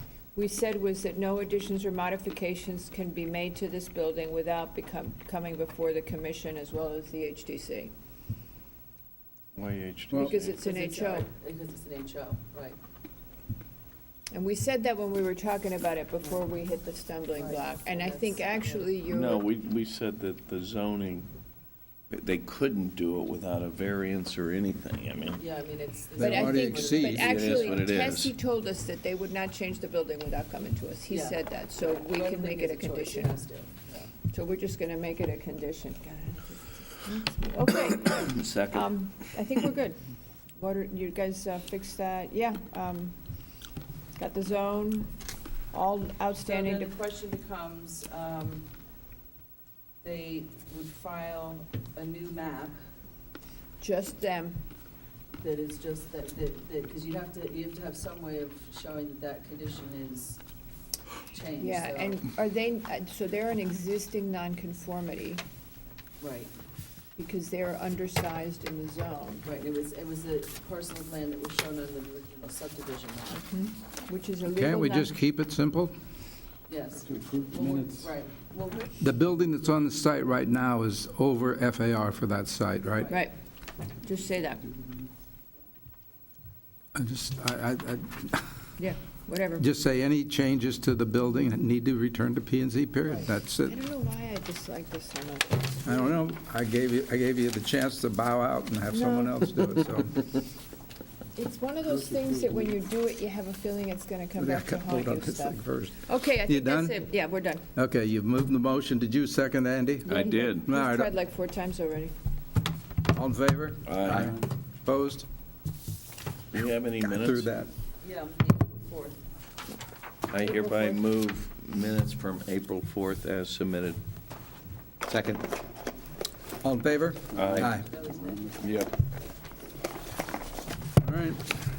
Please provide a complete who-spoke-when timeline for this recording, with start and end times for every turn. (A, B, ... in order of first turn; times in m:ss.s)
0:00.3-0:07.9 A
0:09.6-0:10.5 B
0:10.1-0:11.3 A
0:10.4-0:12.8 C
0:14.3-0:19.4 A
0:17.4-0:18.9 C
0:19.1-0:21.3 B
0:22.1-0:25.4 B
0:25.3-0:27.8 C
0:26.2-0:27.4 D
0:26.2-0:33.3 A
0:27.2-0:28.3 B
0:31.1-0:34.1 C
0:34.3-0:40.0 A
0:38.1-0:38.9 B
0:40.6-0:43.2 A
0:44.2-0:45.1 A
0:45.7-0:46.9 A
0:46.4-0:48.7 C
0:50.0-0:52.8 C
0:53.8-0:54.6 A
0:55.4-1:00.4 C
1:01.3-1:02.2 C
1:01.6-1:05.4 A
1:06.2-1:06.5 C
1:07.2-1:09.4 A
1:09.4-1:13.4 C
1:13.4-1:15.2 A
1:14.5-1:15.9 D
1:16.7-1:19.0 C
1:19.0-1:23.1 D
1:24.0-1:24.8 A
1:26.9-1:28.4 D
1:28.8-1:29.6 A
1:29.6-1:33.8 D
1:33.1-1:36.1 A
1:35.8-1:40.2 D
1:38.9-1:39.4 A
1:41.4-1:47.6 A
1:44.4-1:47.0 D
1:47.7-1:51.1 D
1:50.0-1:52.1 A
1:50.1-1:50.6 B
1:53.1-1:55.3 D
1:53.9-1:54.4 B
1:56.5-1:57.5 B
1:57.0-1:57.7 D
1:58.0-1:59.2 C
2:00.3-2:04.0 B
2:00.4-2:01.0 A
2:05.1-2:05.4 D
2:06.6-2:07.9 D
2:07.3-2:07.7 B
2:07.6-2:08.6 C
2:08.6-2:08.9 B
2:11.0-2:11.5 D